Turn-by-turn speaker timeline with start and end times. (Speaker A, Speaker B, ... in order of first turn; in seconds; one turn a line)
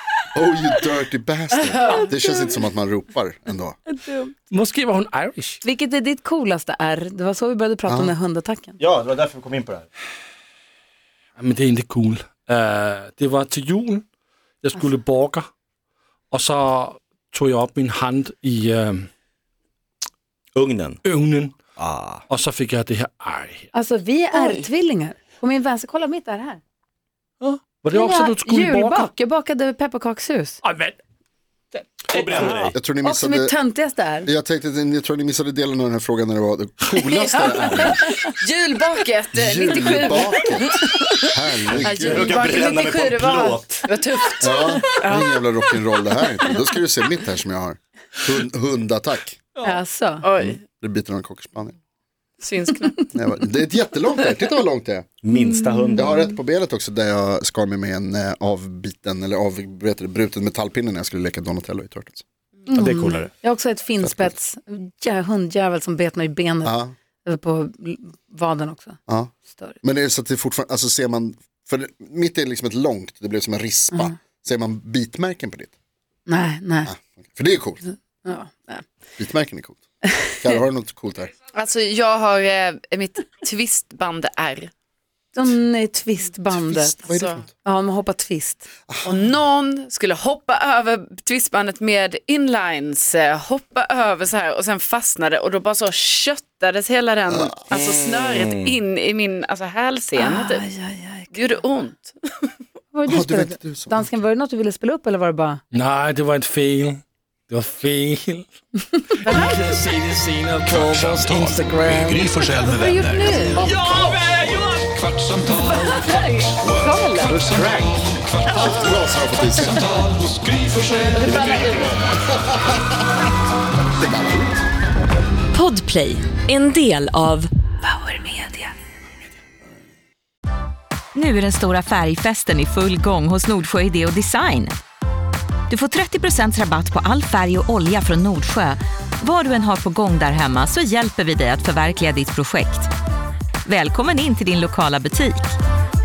Speaker A: 0.3-3.8
Speaker B: 1.6-2.4
Speaker C: 3.9-4.3
Speaker D: 4.5-5.6
Speaker C: 5.6-8.8
Speaker A: 7.9-8.1
Speaker E: 8.8-9.9
Speaker D: 11.4-14.0
Speaker D: 14.6-15.5
Speaker D: 16.3-19.1
Speaker E: 20.5-21.0
Speaker D: 21.0-21.6
Speaker E: 21.8-22.2
Speaker D: 22.3-23.6
Speaker C: 23.7-26.6
Speaker B: 24.3-24.6
Speaker D: 27.4-29.1
Speaker C: 27.9-30.6
Speaker D: 30.6-31.0
Speaker D: 31.7-32.7
Speaker E: 32.1-32.7
Speaker A: 32.7-33.6
Speaker C: 33.0-34.3
Speaker A: 34.2-38.0
Speaker B: 37.0-45.5
Speaker A: 39.3-42.3
Speaker C: 41.9-42.4
Speaker E: 41.9-43.9
Speaker A: 44.4-49.4
Speaker C: 49.6-50.2
Speaker B: 50.2-50.6
Speaker A: 50.5-51.7
Speaker B: 52.4-53.1
Speaker A: 53.1-55.1
Speaker E: 55.2-56.3
Speaker A: 56.0-62.2
Speaker C: 62.6-69.0
Speaker E: 62.7-63.3
Speaker A: 64.0-64.3
Speaker A: 66.6-66.9
Speaker C: 69.5-69.8
Speaker A: 69.8-75.7
Speaker C: 76.3-76.9
Speaker A: 76.8-77.8
Speaker C: 77.8-78.8
Speaker A: 79.2-79.8
Speaker C: 80.0-80.5
Speaker A: 80.3-81.3
Speaker B: 81.5-84.7
Speaker C: 85.3-87.0
Speaker A: 86.5-87.5
Speaker B: 87.0-87.4
Speaker C: 87.6-88.7
Speaker A: 88.9-89.2
Speaker B: 89.0-100.6
Speaker E: 97.8-98.7
Speaker C: 100.2-101.4
Speaker B: 101.3-102.4
Speaker C: 102.9-105.6
Speaker A: 103.1-104.1
Speaker D: 105.7-112.3
Speaker B: 109.2-109.7
Speaker F: 110.6-113.6
Speaker B: 112.8-113.6
Speaker D: 113.6-116.4
Speaker A: 113.8-114.2
Speaker F: 115.0-115.7
Speaker B: 115.6-117.4
Speaker F: 116.6-117.7
Speaker E: 117.3-118.0
Speaker A: 118.5-119.9
Speaker D: 119.8-121.3
Speaker B: 121.2-122.0
Speaker F: 121.3-122.1
Speaker E: 121.6-121.9
Speaker G: 125.5-128.7
Speaker G: 131.1-134.7
Speaker G: 135.7-142.9
Speaker G: 143.7-145.5